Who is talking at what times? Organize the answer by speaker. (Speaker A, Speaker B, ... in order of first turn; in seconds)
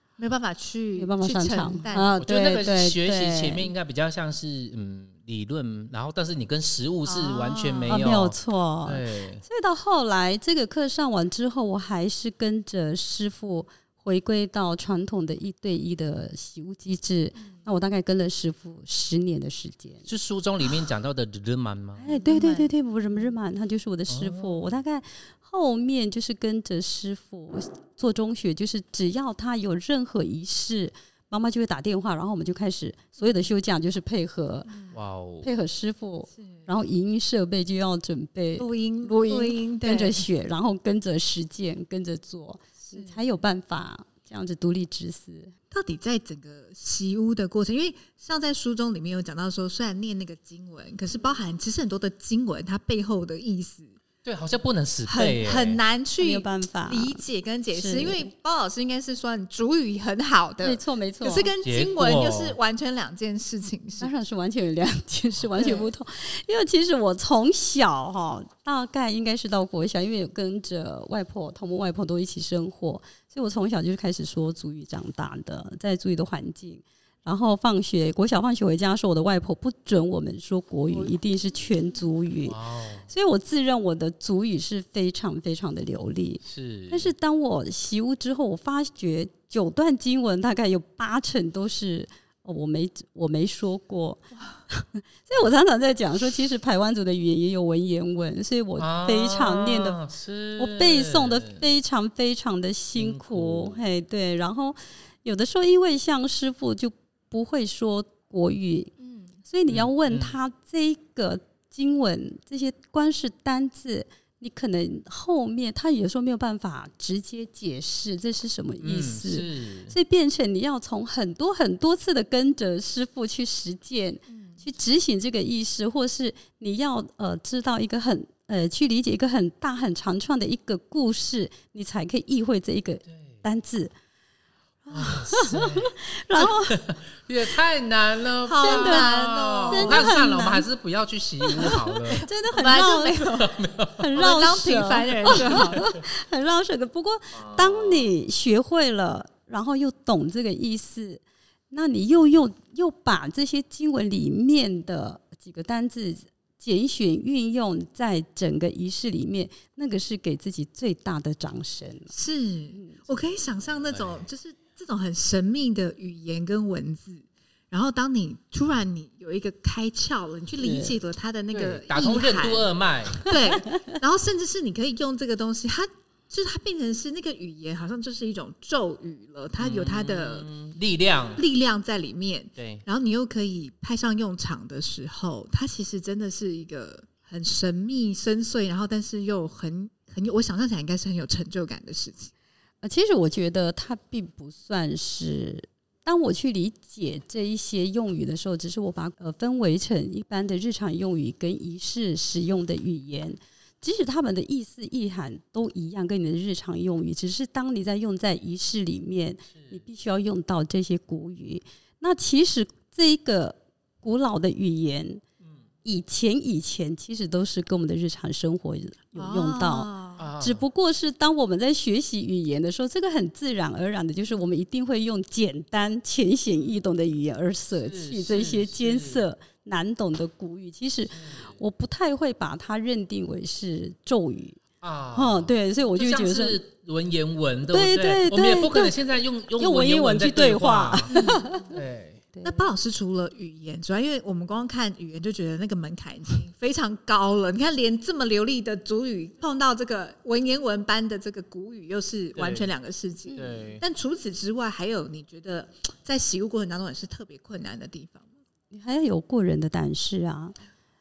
Speaker A: 0.2-2.1, 7.0-8.0, 22.1-22.7, 34.7-35.0, 36.4-36.7, 38.6-40.3, 42.8-43.2, 45.7-54.0, 55.1-64.1, 65.6-65.8, 109.0-109.4, 124.3-124.7, 138.4-140.1, 142.1-143.6, 144.1-145.9, 162.1-180.5, 181.4-192.3, 219.2-220.2, 241.1-241.6, 242.4-258.3
Speaker B: 1.0-3.7, 7.9-20.1, 22.0-34.7, 35.4-45.5, 56.2-57.2, 57.7-58.3, 60.6-61.5, 64.0-100.0, 100.6-108.9, 109.5-133.9, 134.9-136.8, 138.6-139.1, 139.7-140.7, 141.5-143.3, 144.0-162.1, 170.6-170.9, 192.8-215.2, 215.8-234.6, 235.1-236.6, 237.7-239.0, 239.6-241.8, 242.3-242.7, 253.3-253.7, 258.7-260.6
Speaker C: 2.2-9.4, 20.1-22.1, 24.1-24.8, 34.9-35.5, 54.2-55.8, 61.6-62.6, 82.5-83.1, 86.5-87.1, 98.8-101.6, 103.0-103.8, 109.7-110.4, 118.8-120.0, 133.1-133.4, 134.9-142.3, 143.4-144.1, 147.3-148.1, 163.8-164.2, 171.5-173.3, 179.6-181.4, 182.6-182.8, 209.5-209.8, 220.2-220.6, 227.8-229.2, 231.1-231.5, 234.8-241.1, 241.7-242.2, 252.4-252.7, 253.3-253.8